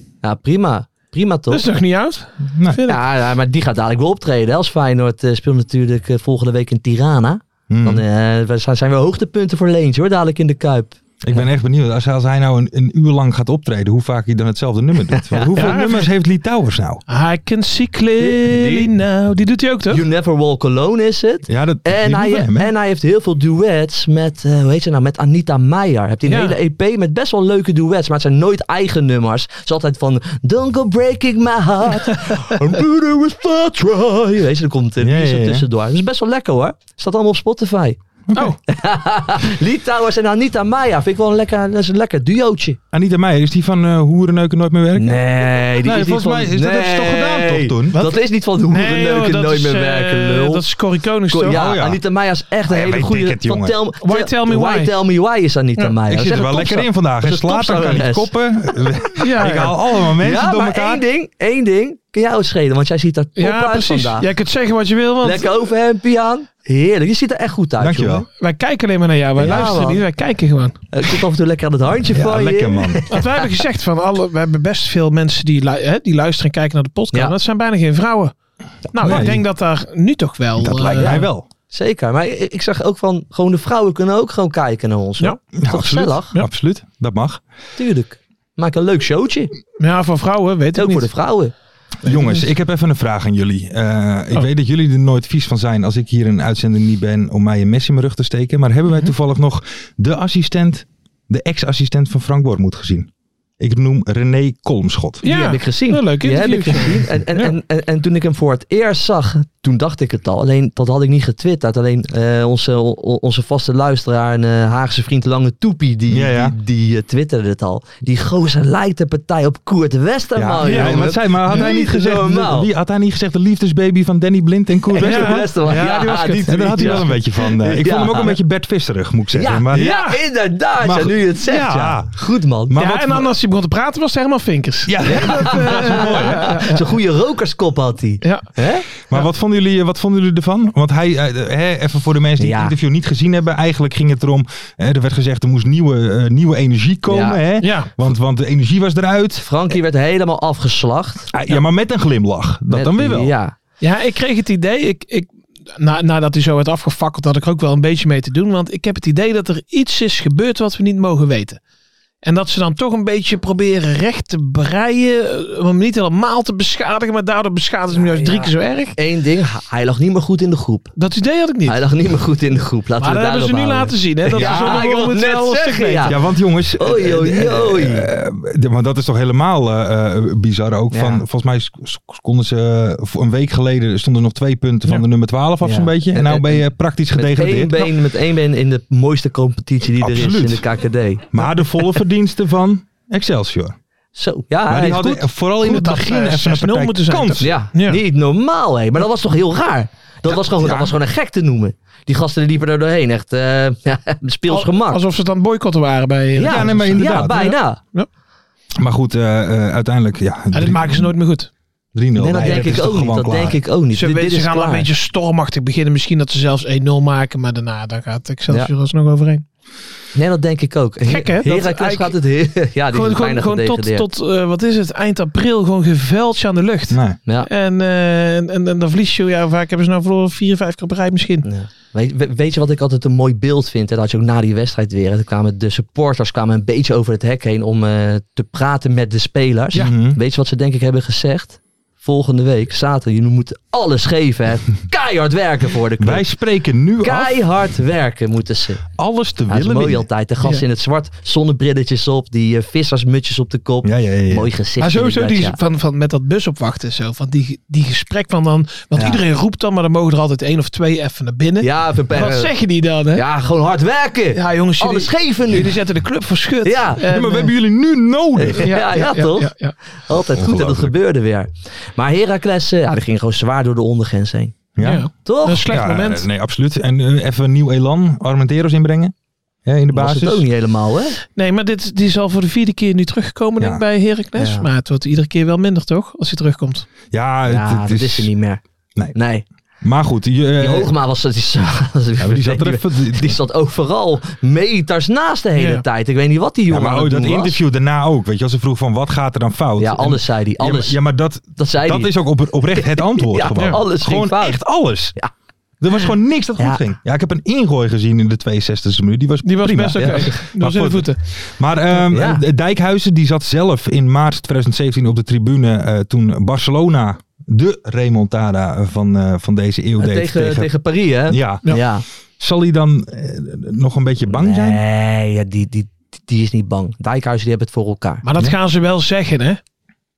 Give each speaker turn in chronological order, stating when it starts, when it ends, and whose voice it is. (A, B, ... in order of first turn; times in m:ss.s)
0:00.2-0:01.7 A
0:01.5-0:03.0 B
0:02.5-0:02.8 C
0:02.9-0:11.4 A
0:07.7-0:08.0 C
0:11.2-0:17.0 C
0:15.1-0:15.8 A
0:15.6-0:16.1 B
0:17.1-0:20.0 B
0:18.2-0:18.9 A
0:19.9-0:38.0 A
0:21.5-0:22.7 C
0:26.3-0:26.6 B
0:35.0-0:35.6 C
0:38.3-0:38.6 C
0:38.7-0:42.8 A
0:42.9-0:48.0 C
0:45.0-0:50.6 A
0:47.9-0:51.6 B
0:51.3-0:58.3 A
0:51.5-0:52.0 C
0:52.7-0:53.7 C
0:54.0-0:55.0 B
0:56.1-1:01.0 C
0:59.2-0:59.8 B
1:00.2-1:04.3 A
1:03.4-1:05.5 B
1:05.2-1:08.3 A
1:07.8-1:08.3 C
1:08.4-1:11.2 B
1:09.4-1:10.0 A
1:10.9-1:13.4 A
1:12.1-1:13.0 C
1:13.1-1:18.3 B
1:18.9-1:21.2 B
1:19.0-1:19.4 C
1:20.6-1:21.5 C
1:21.0-1:26.4 A
1:25.6-1:27.4 C
1:27.8-1:29.5 A
1:29.8-1:31.1 B
1:30.8-1:31.5 A
1:32.0-1:45.2 C
1:32.1-1:32.4 B
1:45.2-1:47.5 B
1:45.2-2:02.7 A
1:56.1-1:56.6 C
2:00.4-2:10.0 C
2:00.6-2:01.6 B
2:04.9-2:08.4 A
2:05.0-2:07.2 B
2:09.3-2:12.8 A
2:09.7-2:10.2 B
2:10.8-2:12.1 C
2:12.7-2:13.3 C
2:12.8-2:16.8 B
2:14.9-2:16.7 C
2:15.1-2:18.8 A
2:19.1-2:29.5 C
2:22.4-2:22.8 A
2:27.1-2:27.4 A
2:27.6-2:27.9 B
2:29.4-2:31.3 A
2:31.3-2:33.3 C
2:32.7-2:33.6 A
2:33.8-2:41.6 B
2:42.2-2:49.0 B
2:47.9-2:50.9 A
2:51.0-2:51.8 B
2:51.7-2:56.2 A
2:53.0-2:56.2 B
2:54.4-2:54.9 C
2:56.0-3:07.9 C
2:56.8-2:58.1 A
3:00.9-3:01.2 A
3:05.6-3:11.6 A
3:10.0-3:10.7 C
3:11.3-3:13.8 C
3:14.2-3:15.3 A
3:14.7-3:17.5 C
3:15.6-3:18.0 B
3:17.4-3:25.0 A
3:20.3-3:20.9 C
3:24.5-3:28.1 B
3:26.4-3:27.8 A
3:26.4-3:27.5 C
3:28.8-3:31.1 C
3:30.5-3:31.5 B
3:31.9-3:33.6 C
3:32.2-3:34.9 A
3:32.4-3:32.8 B
3:33.9-3:39.4 B
3:40.2-3:44.0 A
3:41.1-3:42.2 B
3:42.9-3:51.5 B
3:46.9-3:47.2 C
3:51.4-4:06.3 A
3:59.7-4:00.2 C
4:06.0-4:07.4 C
4:07.0-4:08.8 A
4:09.0-4:10.1 C
4:09.5-4:15.6 A
4:13.8-4:14.5 C
4:14.8-4:23.2 B
4:19.0-4:19.2 A
4:21.6-4:22.5 A
4:23.1-4:25.8 A
4:24.3-4:27.5 B
4:26.6-4:27.0 A
4:27.1-4:28.7 C
4:28.4-4:34.6 A
4:28.6-4:29.8 B
4:30.3-4:30.9 C
4:34.8-4:35.1 C
4:34.8-4:36.3 B
4:35.2-4:35.7 A
4:35.7-4:39.1 C
4:39.6-4:40.4 C
4:39.9-4:41.2 A
4:41.4-4:46.9 B
4:44.4-4:44.7 A
4:47.1-4:48.3 C
4:47.5-4:48.6 A
4:49.1-4:49.4 A
4:49.8-4:50.9 C
4:50.6-4:57.6 A
4:52.2-4:53.4 C
4:55.6-4:55.8 B
4:56.7-5:05.2 C
4:59.8-5:01.0 A
5:01.6-5:02.1 A
5:02.8-5:04.6 A
5:05.8-5:20.7 C
5:09.4-5:11.2 B
5:10.0-5:10.4 A
5:12.1-5:12.4 A
5:20.0-5:22.0 A
5:21.3-5:21.7 C
5:22.4-5:24.8 C
5:24.3-5:28.2 A
5:28.2-5:29.6 B